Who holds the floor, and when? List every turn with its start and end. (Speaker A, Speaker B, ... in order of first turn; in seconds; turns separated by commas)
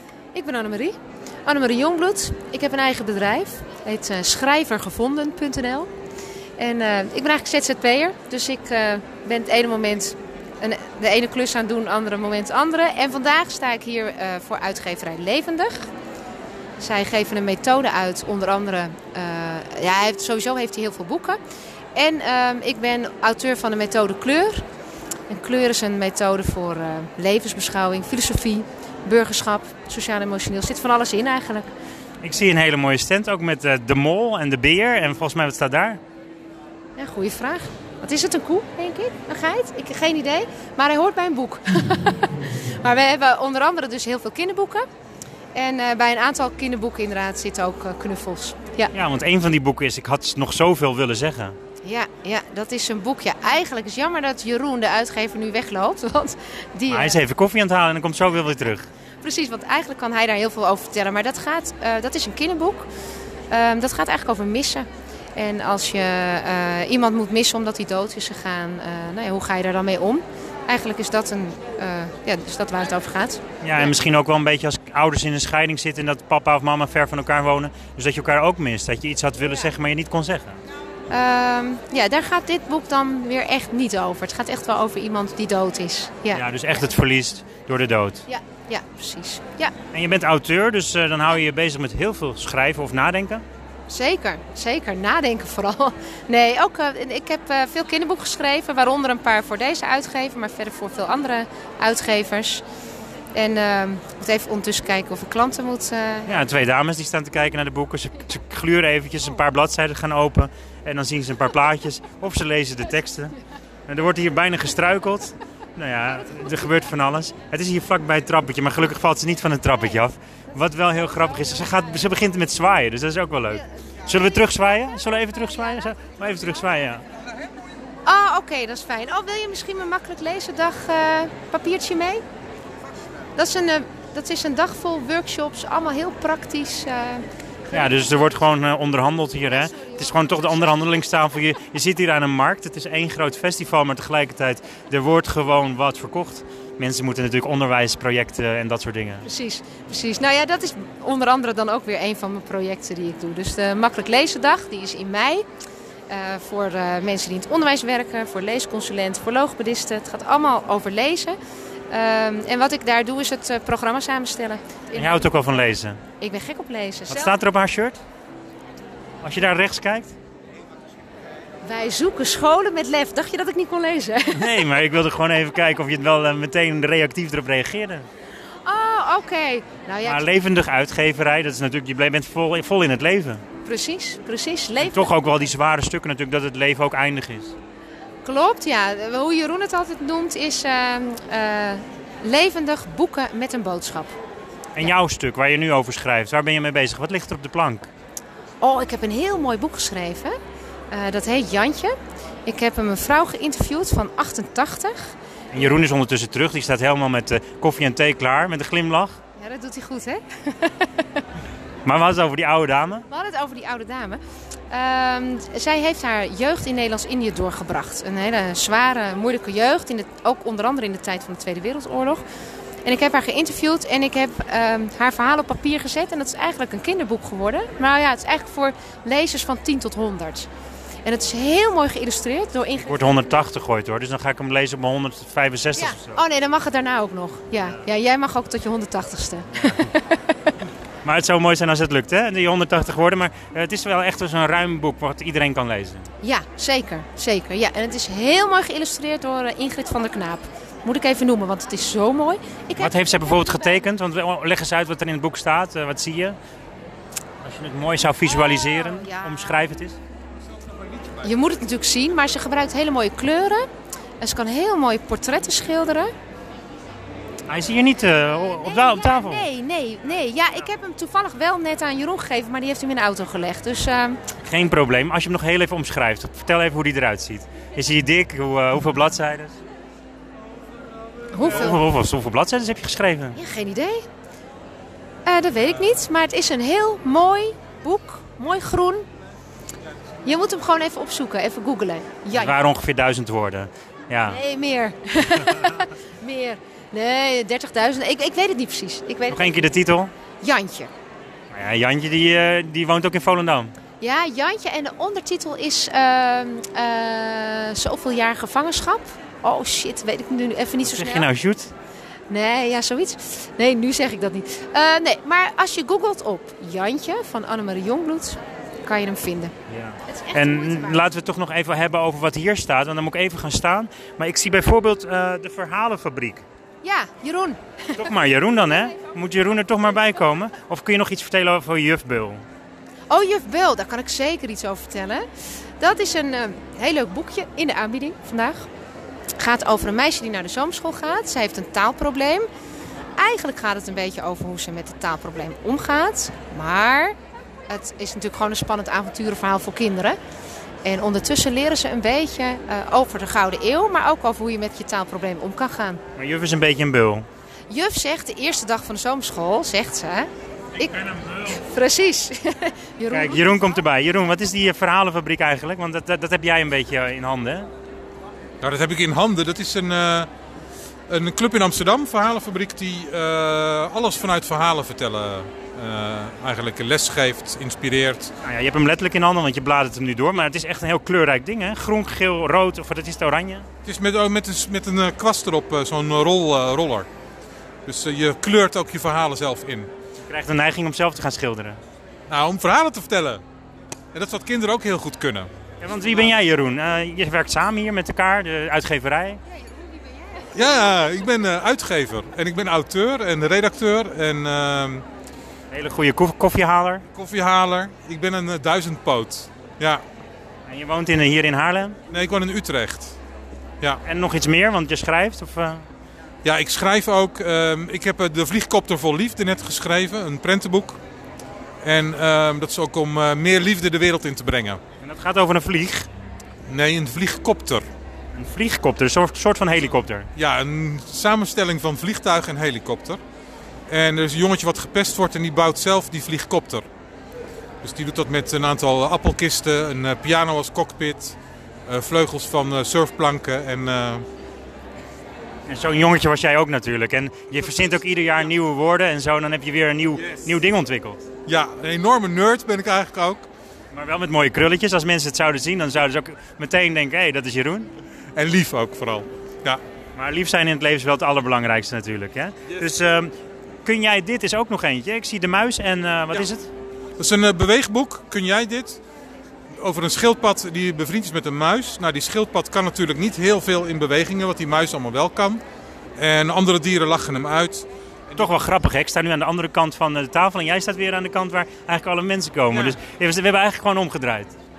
Speaker A: 0.3-5.9, Speaker A: 6.6-15.9, Speaker A: 16.8-21.4, Speaker A: 21.9-24.6, Speaker A: 25.3-31.7, Speaker B: 32.2-36.0, Speaker A: 37.0-44.9, Speaker A: 45.5-48.9, Speaker B: 48.9-51.5, Speaker A: 51.8-57.2, Speaker B: 56.9-58.9, Speaker A: 59.2-62.9, Speaker A: 63.5-73.4, Speaker B: 73.6-80.6, Speaker A: 81.1-86.4, Speaker B: 86.3-88.2, Speaker A: 88.3-89.7, Speaker B: 89.9-93.4, Speaker A: 93.9-102.6, Speaker A: 103.3-106.4, Speaker B: 106.3-113.3, Speaker B: 113.9-127.0, Speaker A: 128.1-132.2, Speaker A: 133.4-138.2, Speaker B: 137.7-149.3, Speaker A: 139.5-140.7, Speaker A: 149.2-155.4, Speaker A: 156.1-161.3, Speaker A: 161.9-165.3, Speaker B: 164.9-166.0, Speaker A: 166.2-167.4, Speaker B: 167.1-168.0, Speaker B: 169.2-170.1, Speaker A: 171.6-174.6, Speaker B: 174.3-178.1, Speaker A: 178.6-180.3, Speaker B: 180.0-183.4, Speaker A: 183.6-185.2, Speaker B: 184.8-187.5, Speaker A: 188.2-194.1, Speaker B: 194.7-197.9, Speaker A: 198.6-200.4, Speaker A: 200.9-201.9, Speaker A: 202.4-205.1, Speaker B: 205.5-209.2, Speaker A: 209.4-210.9, Speaker B: 211.8-213.0, Speaker A: 213.1-222.2, Speaker A: 222.8-230.5, Speaker A: 231.0-233.0, Speaker B: 232.8-236.2, Speaker A: 235.8-240.5, Speaker B: 241.0-246.1, Speaker A: 246.2-253.8, Speaker B: 252.8-256.4, Speaker B: 257.4-260.0, Speaker A: 258.3-259.6, Speaker A: 261.2-263.7, Speaker A: 264.2-266.1, Speaker B: 267.5-269.5, Speaker A: 268.6-274.2, Speaker B: 274.4-279.6, Speaker A: 281.3-281.8, Speaker B: 281.4-283.4, Speaker A: 283.3-284.0, Speaker A: 285.2-289.1, Speaker A: 290.2-292.6, Speaker B: 292.3-294.4, Speaker A: 294.3-299.5, Speaker B: 299.3-300.1, Speaker A: 300.4-300.9, Speaker B: 301.5-303.7, Speaker A: 304.0-311.3, Speaker B: 310.8-311.7, Speaker A: 312.3-319.5, Speaker B: 319.7-326.4, Speaker A: 320.1-321.0, Speaker A: 326.8-328.0, Speaker B: 328.0-332.4, Speaker A: 333.1-335.2, Speaker A: 335.8-338.7, Speaker A: 339.4-342.5, Speaker A: 343.2-347.1, Speaker A: 347.7-350.2, Speaker A: 350.8-356.0, Speaker B: 356.1-357.3, Speaker A: 357.7-363.6, Speaker B: 363.1-367.7, Speaker C: 368.6-370.3, Speaker C: 371.1-378.3, Speaker B: 378.4-383.6, Speaker C: 383.8-387.1, Speaker C: 387.9-389.9, Speaker B: 390.3-391.8, Speaker C: 392.3-393.4, Speaker C: 394.1-395.5, Speaker B: 395.8-399.4, Speaker C: 400.5-405.1, Speaker B: 405.7-407.0, Speaker C: 407.1-410.0, Speaker B: 410.7-412.0, Speaker C: 412.1-413.1, Speaker B: 414.0-415.9, Speaker C: 416.4-421.0, Speaker C: 421.8-424.8, Speaker B: 425.0-426.1, Speaker C: 426.7-427.8, Speaker B: 428.3-430.3, Speaker C: 430.3-433.2, Speaker C: 433.9-436.8, Speaker C: 437.8-444.2, Speaker B: 445.7-451.2, Speaker C: 451.4-453.5, Speaker B: 453.9-457.9, Speaker C: 458.3-459.8, Speaker B: 460.1-463.3, Speaker B: 463.8-466.7, Speaker C: 467.2-469.0, Speaker C: 469.8-475.6, Speaker C: 476.2-478.5, Speaker B: 478.3-484.5, Speaker C: 482.7-483.0